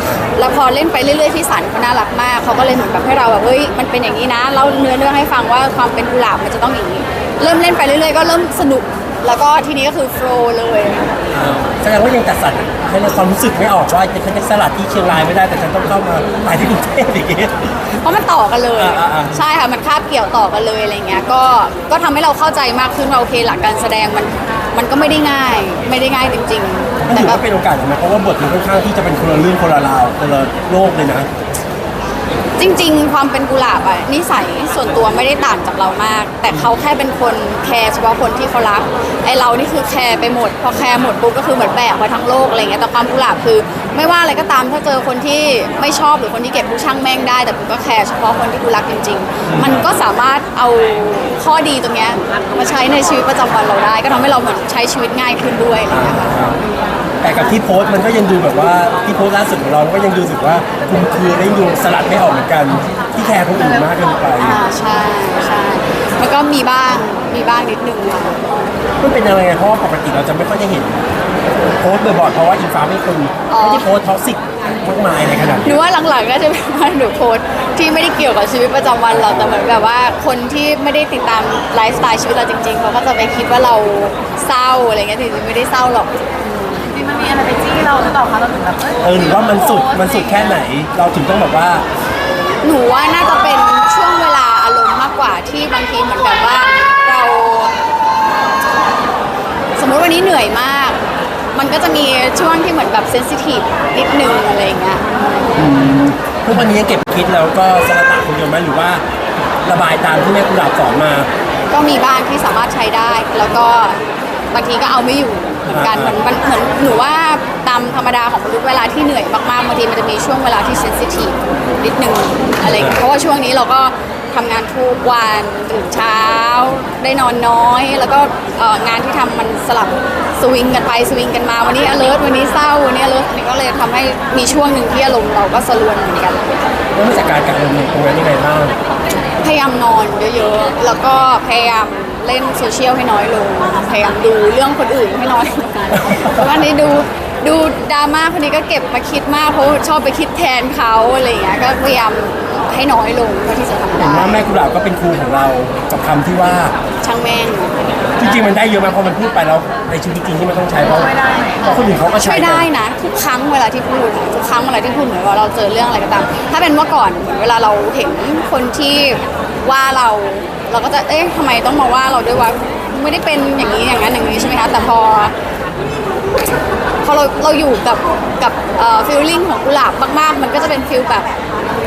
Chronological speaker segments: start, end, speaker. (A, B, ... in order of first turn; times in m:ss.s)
0:00.3-0:11.3 A
0:11.3-0:17.8 B
0:17.9-0:27.4 A
0:18.8-0:19.4 B
0:27.0-0:31.3 B
0:32.6-0:56.7 A
0:49.4-0:49.9 B
0:55.9-0:56.6 B
0:57.2-1:04.6 B
1:04.4-1:08.5 A
1:09.0-1:11.0 B
1:11.8-1:15.8 B
1:13.5-1:13.9 A
1:15.6-1:27.1 A
1:27.0-1:29.0 C
1:29.0-1:31.8 B
1:29.7-1:30.4 C
1:32.6-1:37.7 A
1:39.8-1:41.0 A
1:41.5-1:45.2 A
1:45.6-1:49.0 B
1:49.6-1:51.3 B
1:51.7-1:54.0 A
1:54.5-2:16.6 A
1:55.7-1:56.2 B
2:02.7-2:03.0 B
2:16.9-2:18.7 B
2:19.4-2:34.5 A
2:26.0-2:26.4 B
2:34.0-2:36.7 B
2:37.0-2:37.8 A
2:38.2-2:42.7 B
2:41.2-2:41.6 C
2:42.1-2:55.3 A
2:57.0-3:01.3 A